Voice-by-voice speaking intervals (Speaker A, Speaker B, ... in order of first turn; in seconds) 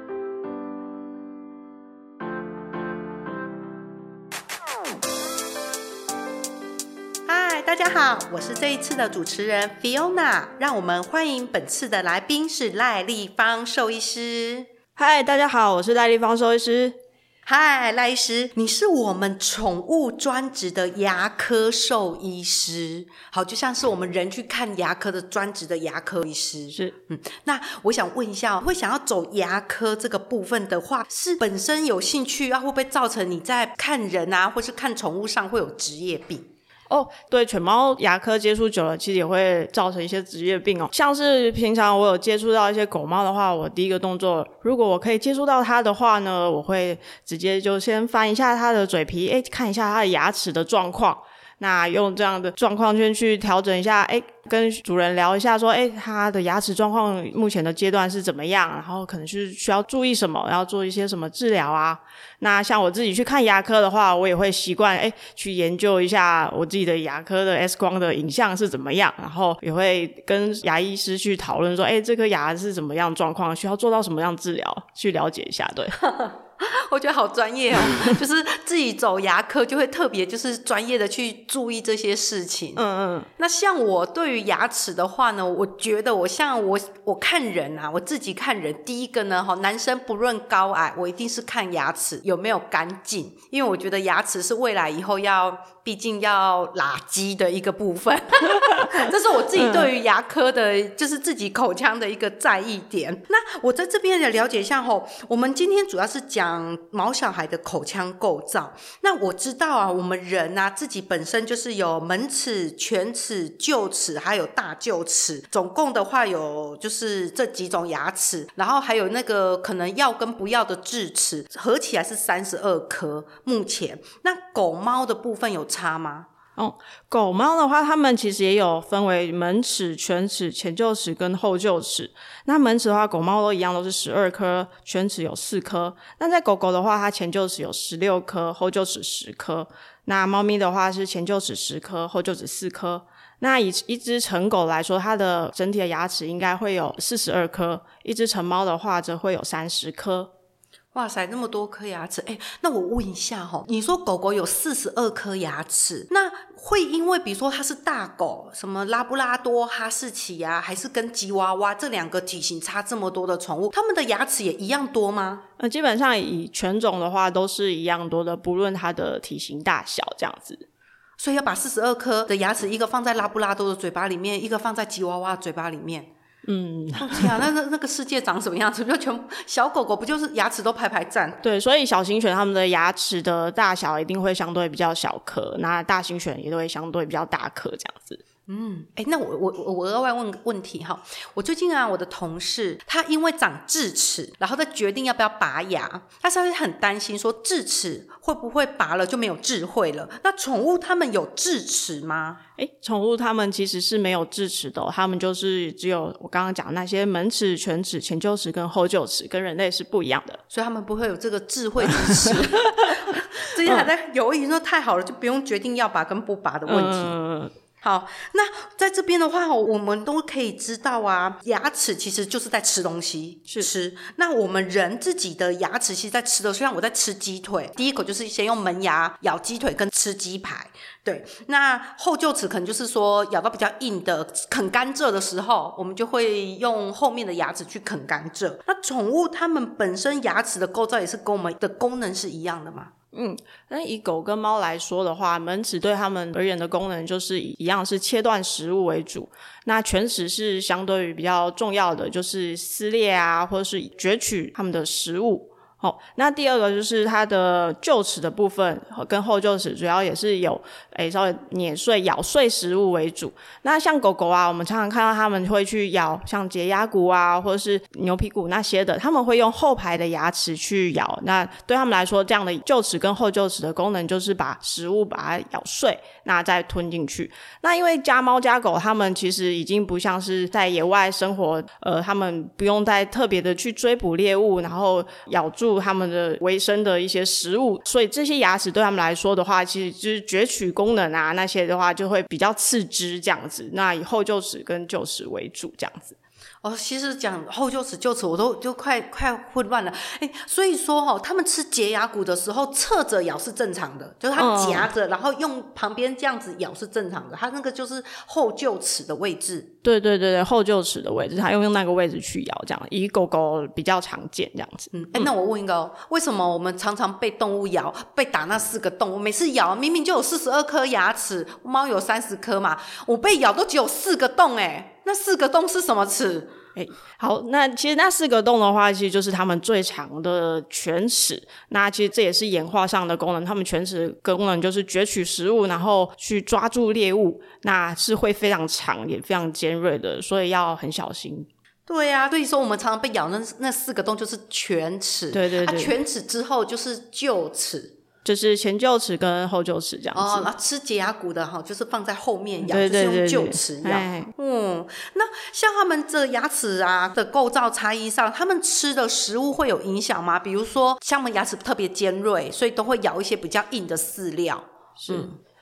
Speaker A: 7.3-14.7, 17.4-36.5, 76.0-82.8, 83.4-126.3, 150.9-165.4, 171.2-176.1, 177.0-181.4, 188.5-202.4, 210.5-217.2, 217.8-242.9, 296.6-309.7, 314.9-326.6, 341.9-347.9, 350.1-365.4
Speaker B: 15.0-17.0, 36.9-76.0, 82.8-83.3, 99.0-99.9, 126.6-150.3, 165.6-170.6, 176.4-177.4, 181.4-188.2, 202.6-210.4, 212.1-213.1, 216.7-217.5, 243.1-296.1, 304.4-304.9, 309.8-315.3, 326.8-341.5, 345.3-345.9, 348.2-350.5, 352.6-354.3, 365.0-365.3